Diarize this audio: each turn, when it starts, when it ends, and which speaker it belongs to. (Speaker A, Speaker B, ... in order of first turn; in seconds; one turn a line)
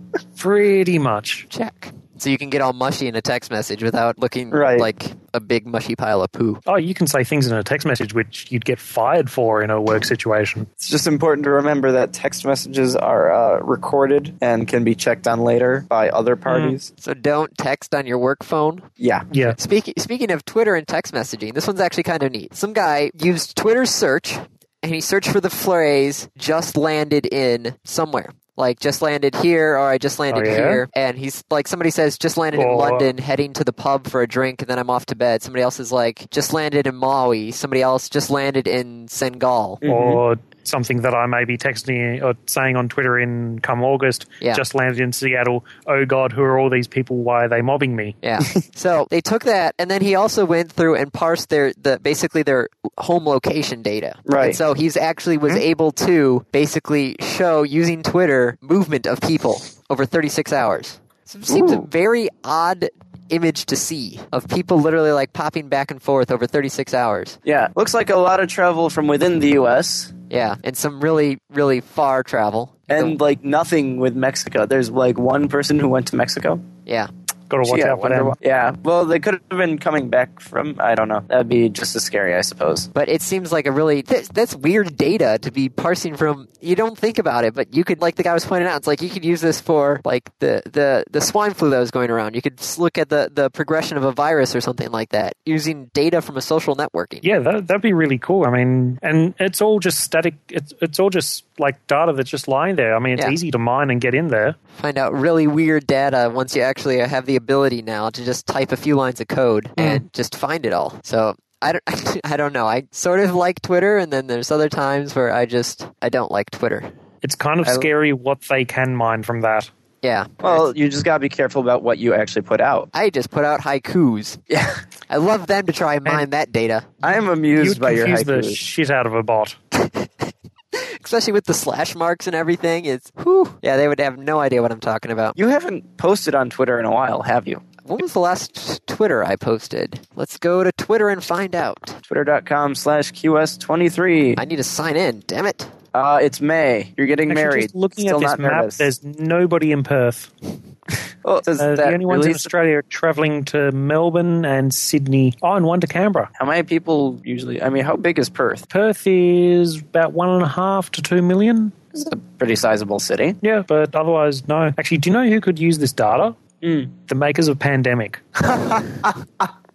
Speaker A: 0.4-1.4
Speaker B: 1.5-6.6
Speaker C: 4.5-4.9
Speaker A: 6.7-10.7
Speaker C: 10.8-16.9
Speaker A: 16.5-16.8
Speaker B: 17.0-18.9
Speaker C: 19.0-19.3
Speaker A: 19.3-19.6
Speaker B: 19.4-39.8
Speaker A: 30.3-30.8
Speaker A: 32.5-33.1
Speaker C: 39.8-40.2
Speaker A: 39.9-48.1
Speaker B: 48.2-67.4
Speaker C: 54.2-54.6
Speaker C: 61.5-61.9
Speaker C: 67.4-70.1
Speaker B: 70.3-73.1
Speaker C: 72.9-76.6
Speaker A: 77.5-78.3
Speaker C: 77.6-82.9
Speaker B: 82.9-97.2
Speaker A: 97.2-104.6
Speaker B: 104.8-116.9
Speaker A: 109.8-110.0
Speaker A: 117.2-119.7
Speaker C: 117.6-117.9
Speaker B: 120.0-120.6
Speaker C: 120.4-122.9
Speaker B: 122.9-124.4
Speaker C: 124.5-124.8
Speaker B: 125.1-126.9
Speaker C: 127.0-128.6
Speaker A: 127.1-129.6
Speaker B: 130.7-135.4
Speaker C: 135.4-137.6
Speaker B: 137.9-142.0
Speaker C: 142.1-144.4
Speaker B: 144.4-145.7
Speaker C: 145.9-148.9
Speaker A: 147.3-150.3
Speaker C: 151.2-152.5
Speaker A: 151.6-156.3
Speaker C: 156.4-158.6
Speaker A: 158.7-161.7
Speaker C: 161.9-163.4
Speaker A: 163.4-166.4
Speaker C: 166.6-166.9
Speaker A: 166.9-168.2
Speaker C: 168.4-169.5